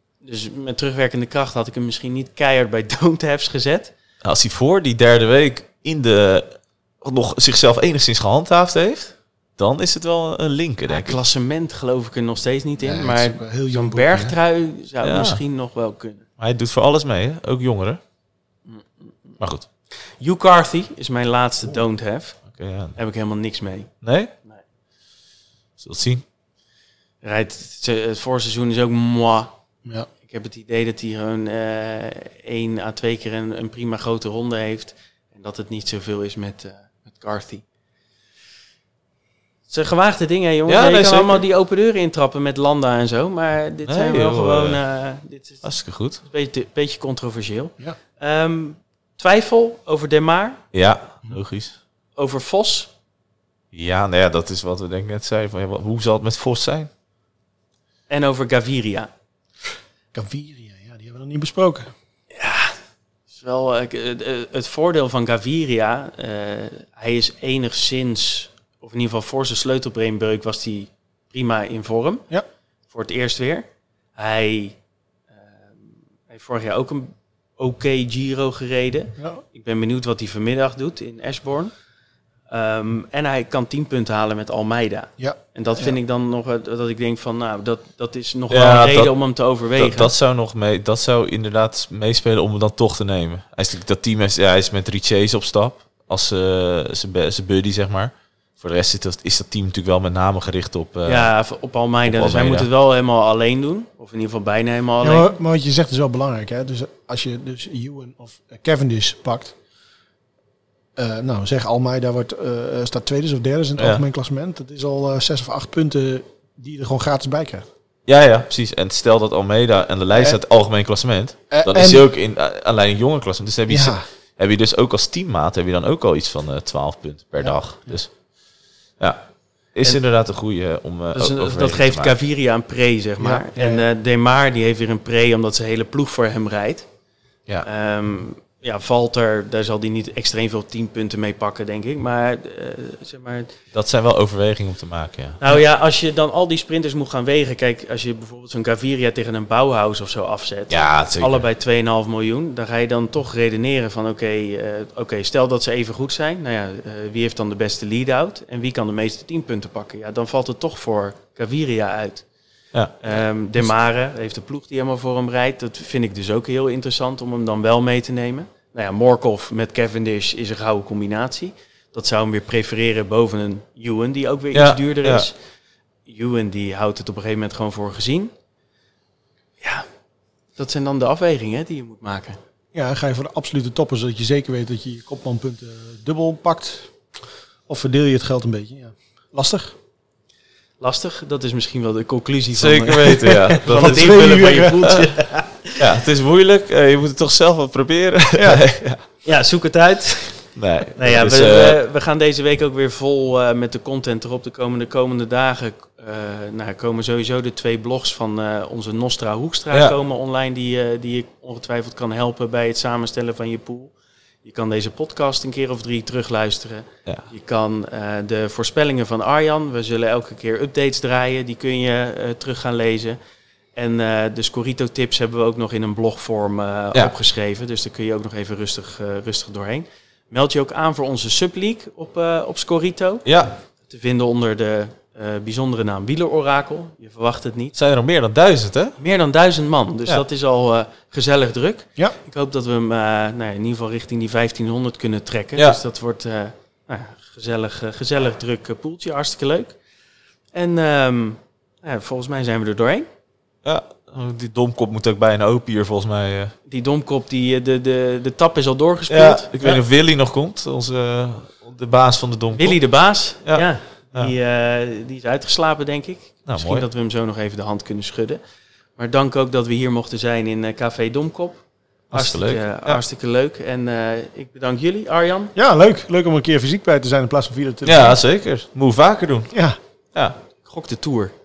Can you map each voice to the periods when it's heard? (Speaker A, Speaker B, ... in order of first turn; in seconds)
Speaker A: 0.2-3.9, 10.9-16.2, 18.7-19.4, 20.2-24.6, 27.2-29.5, 30.2-37.6, 39.7-45.7, 46.2-50.6, 52.1-52.9, 58.1-59.1, 62.3-62.8, 63.3-72.3, 72.9-74.8, 75.3-81.7, 82.5-90.1, 101.0-105.3, 131.1-136.9, 137.6-143.5, 145.4-162.2, 163.0-175.4, 176.1-178.3, 179.6-179.9, 180.6-182.4, 190.8-195.8, 199.2-223.2, 223.7-233.2, 233.8-237.7, 239.0-249.8, 250.5-253.1, 256.7-259.8, 262.5-268.4, 269.0-275.5, 280.6-281.3
Speaker B: 4.2-11.2, 15.0-15.4, 16.4-18.0, 19.4-19.6, 22.5-22.9, 24.0-24.3, 25.8-26.2, 40.7-41.4, 43.9-44.8, 45.6-46.2, 50.7-51.8, 53.7-56.9, 88.5-89.1, 89.8-101.3, 102.0-102.7, 113.8-114.0, 118.1-128.1, 129.7-132.1, 143.7-145.6, 150.7-151.4, 174.5-175.2, 192.5-195.0, 195.8-199.0, 200.5-201.8, 233.2-233.6, 237.7-239.0, 253.6-256.5, 259.1-262.8, 263.4-264.3, 266.4-266.9, 272.1-273.0, 277.8-279.5
Speaker C: 12.8-14.3, 60.1-61.9, 85.2-85.9, 105.0-109.6, 111.0-117.7, 120.1-120.4, 121.5-122.1, 123.7-124.0, 127.4-127.9, 133.2-133.8, 182.7-186.9, 187.7-189.8, 193.7-195.1, 198.3-198.6, 275.5-278.2, 279.5-279.8